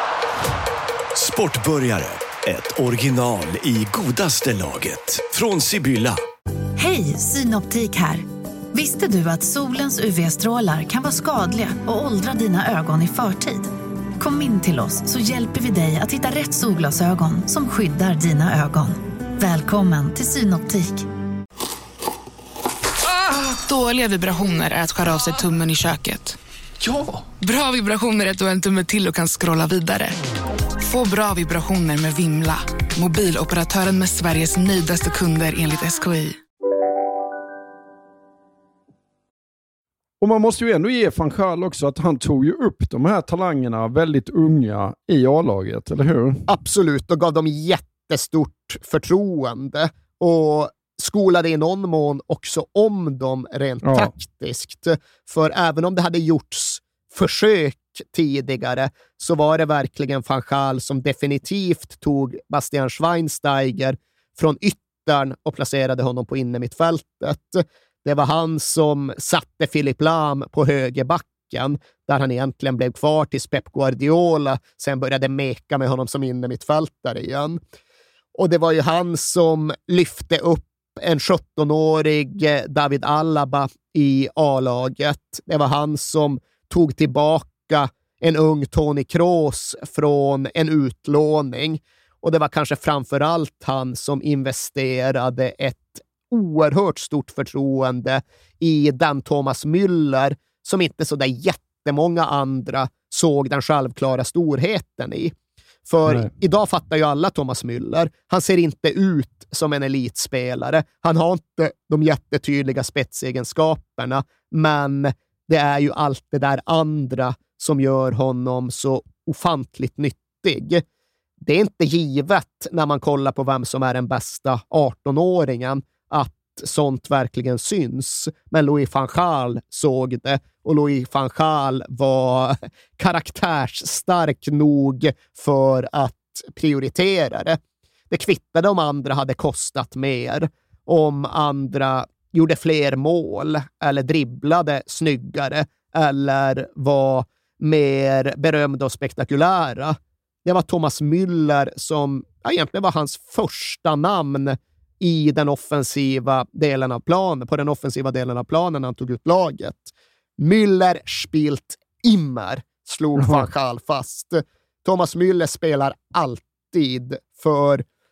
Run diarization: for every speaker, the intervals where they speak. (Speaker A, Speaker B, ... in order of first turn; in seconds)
Speaker A: 1.1-6.2
Speaker B: 6.8-21.1
Speaker C: 23.5-26.4, 27.4-30.2, 30.8-36.4
Speaker D: 40.2-46.5, 53.8-54.1, 163.2-163.4
Speaker E: 46.5-77.6, 78.3-105.3, 105.9-120.8, 121.4-137.6, 138.1-167.8